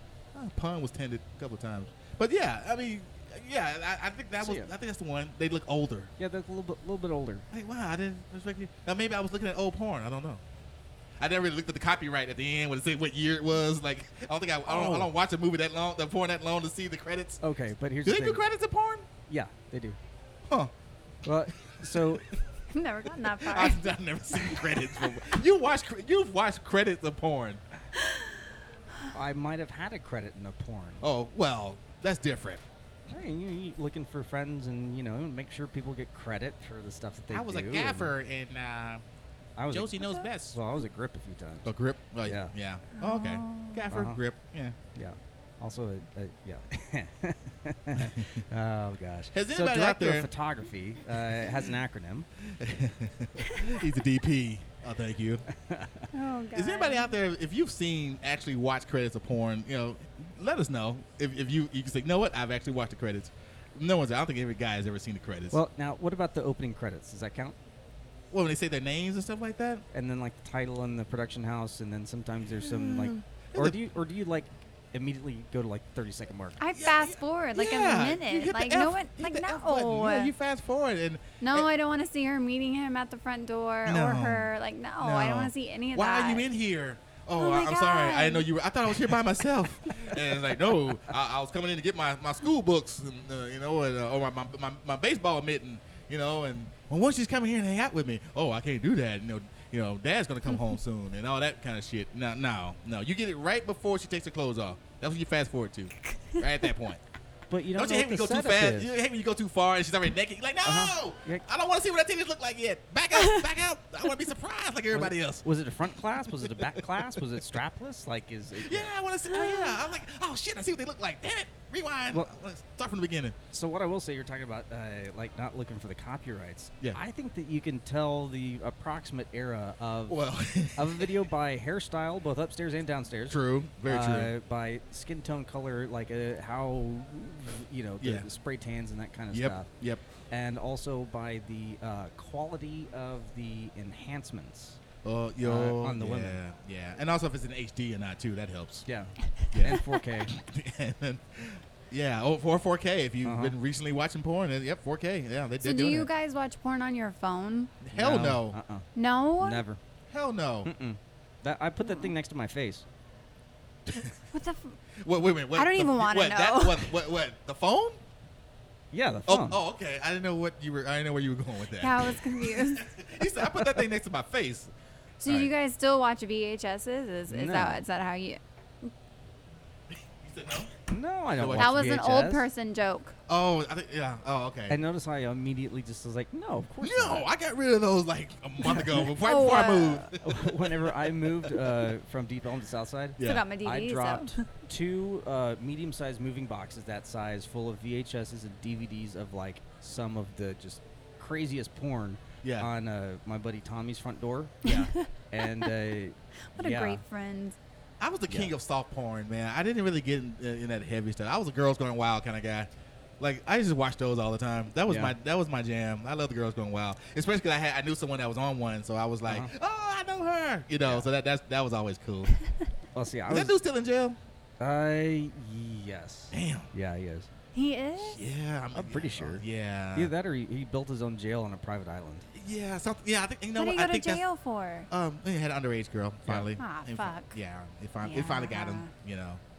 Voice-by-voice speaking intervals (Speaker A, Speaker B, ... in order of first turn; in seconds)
Speaker A: 0.3-6.1, 7.5-10.4, 11.2-17.4, 18.0-19.1, 20.5-20.7, 21.6-22.2, 23.4-27.6, 31.0-32.6, 37.3-39.0, 39.7-40.6, 41.6-44.8, 48.0-48.4, 49.3-50.3, 52.4-55.4, 56.5-65.6, 68.3-69.8, 72.6-73.8, 76.7-81.7, 83.8-107.0, 107.7-115.4, 116.3-117.2, 118.6-123.3, 130.1-131.2, 133.3-134.3, 138.0-138.3, 139.3-140.0, 145.0-148.8, 149.5-156.1, 157.8-158.6, 160.1-160.7, 163.9-164.1, 164.9-168.0, 169.3-174.7, 175.2-175.5, 179.9-180.7, 181.3-181.8, 183.3-184.8, 186.8-191.9, 193.2-193.4, 202.4-202.7, 208.0-222.3, 223.3-224.2, 226.3-226.7, 228.0-230.1, 232.3-234.2, 234.9-239.4
Speaker B: 4.4-4.7, 6.2-7.5, 14.7-15.1, 17.4-18.4, 19.3-20.0, 21.2-22.4, 29.1-31.1, 33.1-38.1, 39.6-41.7, 42.2-42.5, 43.9-44.2, 44.9-52.3, 55.5-56.1, 65.5-67.5, 69.9-76.6, 107.5-108.9, 110.6-111.4, 114.9-118.9, 123.5-139.7, 140.3-144.8, 145.4-146.4, 148.8-150.3, 153.2-153.6, 157.9-158.9, 159.4-159.8, 160.6-162.8, 168.9-169.6, 173.5-173.8, 177.3-177.8, 180.9-182.4, 184.7-187.3, 188.7-189.1, 190.1-207.0, 214.9-215.1, 222.9-223.6, 224.6-227.3, 228.7-232.3, 236.3-236.5
Speaker C: 22.7-24.7, 43.0-43.9, 56.1-57.1, 76.6-80.3, 81.4-86.5, 87.3-88.5, 113.2-113.4, 119.3-119.8, 155.6-157.7, 158.9-159.6, 161.8-162.1, 164.3-164.8, 165.5-167.0, 171.8-172.9, 175.2-178.4, 181.6-183.1, 189.2-190.1, 193.2-194.4, 204.7-205.7, 206.5-207.6, 227.5-228.2, 233.5-234.9, 236.6-237.3, 238.0-238.9